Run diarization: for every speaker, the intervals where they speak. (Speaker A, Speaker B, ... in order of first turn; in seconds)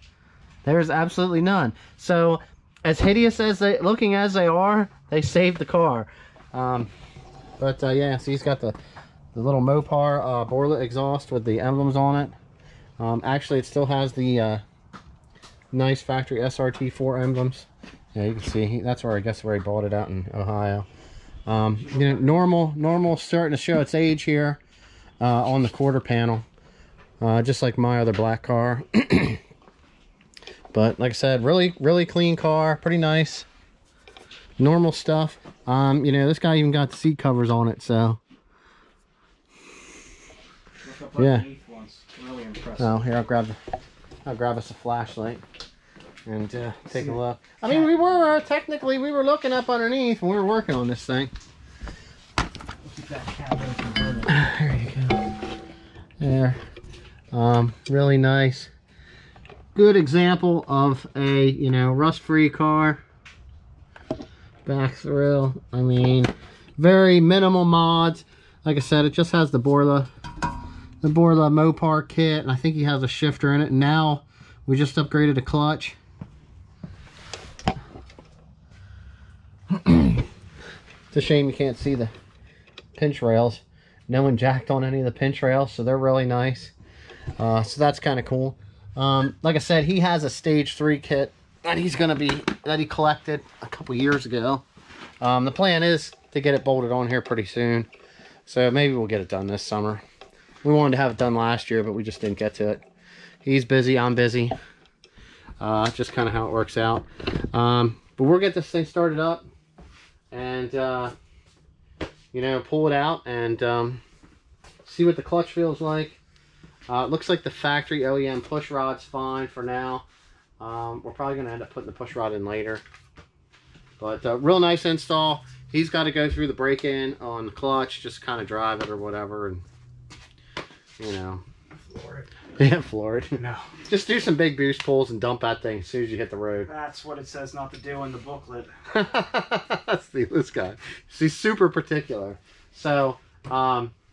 Speaker A: 0.6-6.9, 7.6-8.8, 9.3-12.3, 13.0-14.6, 15.7-20.9, 21.5-24.6, 25.2-26.4, 27.2-29.4, 30.7-33.5, 34.6-38.2, 41.2-41.5, 42.8-43.6, 44.3-45.4, 46.3-51.3, 54.3-55.2, 56.2-56.6, 57.3-58.7, 59.8-63.0, 64.7-70.1, 71.0-76.0, 79.7-80.2, 81.1-82.1, 83.0-86.7, 87.4-94.7, 95.2-97.9, 98.5-100.0, 100.6-102.8, 103.4-104.5, 105.6-109.5, 110.3-111.1, 112.3-114.0, 114.8-116.2, 116.9-120.0, 120.6-122.8, 124.0-129.6, 131.0-131.4, 132.6-136.7, 138.9-143.9
Speaker B: 40.8-43.0, 46.9-48.1, 52.8-54.4, 131.8-132.3, 133.3-133.7, 136.6-138.7